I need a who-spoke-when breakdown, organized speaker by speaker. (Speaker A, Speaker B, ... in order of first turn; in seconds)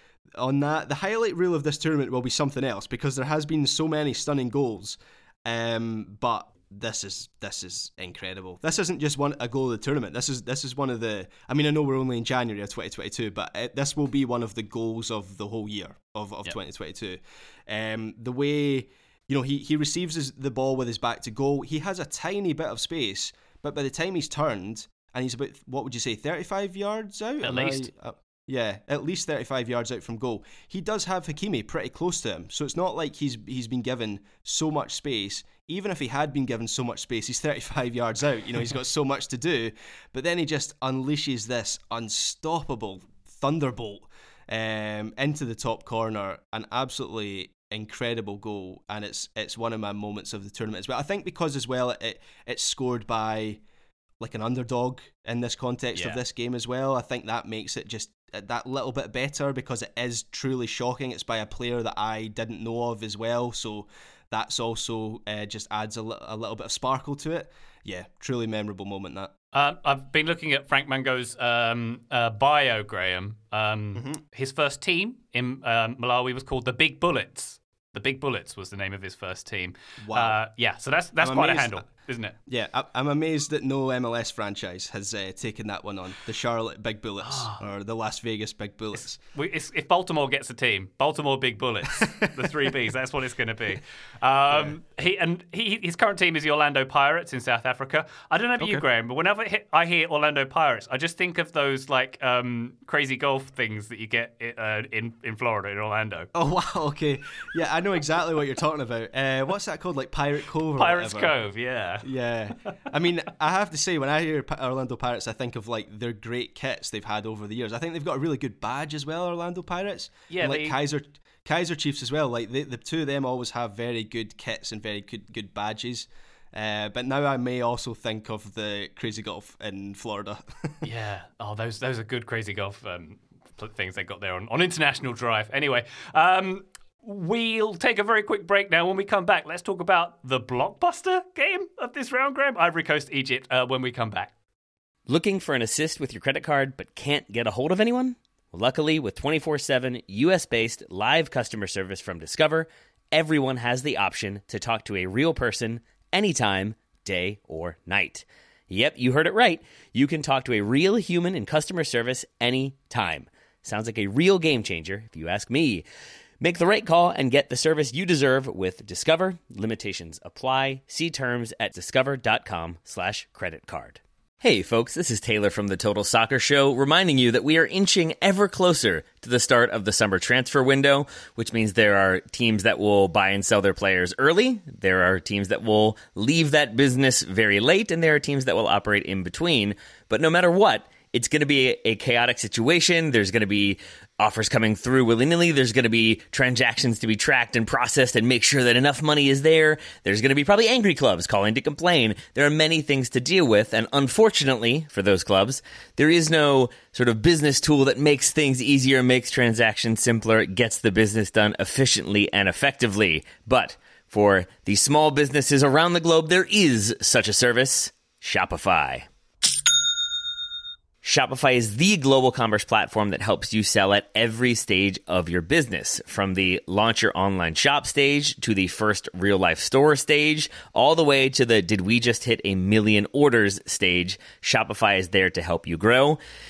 Speaker A: 0.3-53.6, 54.2-69.3, 74.0-74.2, 80.0-80.4, 81.2-81.9, 82.5-89.2, 92.0-92.7, 94.5-94.8, 98.6-98.8, 106.3-111.4, 112.0-130.8
Speaker B: 27.4-27.9, 56.0-56.2, 69.5-82.3, 87.2-87.6, 89.3-106.3, 110.8-112.1, 120.3-120.8, 130.8-144.3
Speaker C: 145.1-165.8, 166.4-219.1, 221.0-236.2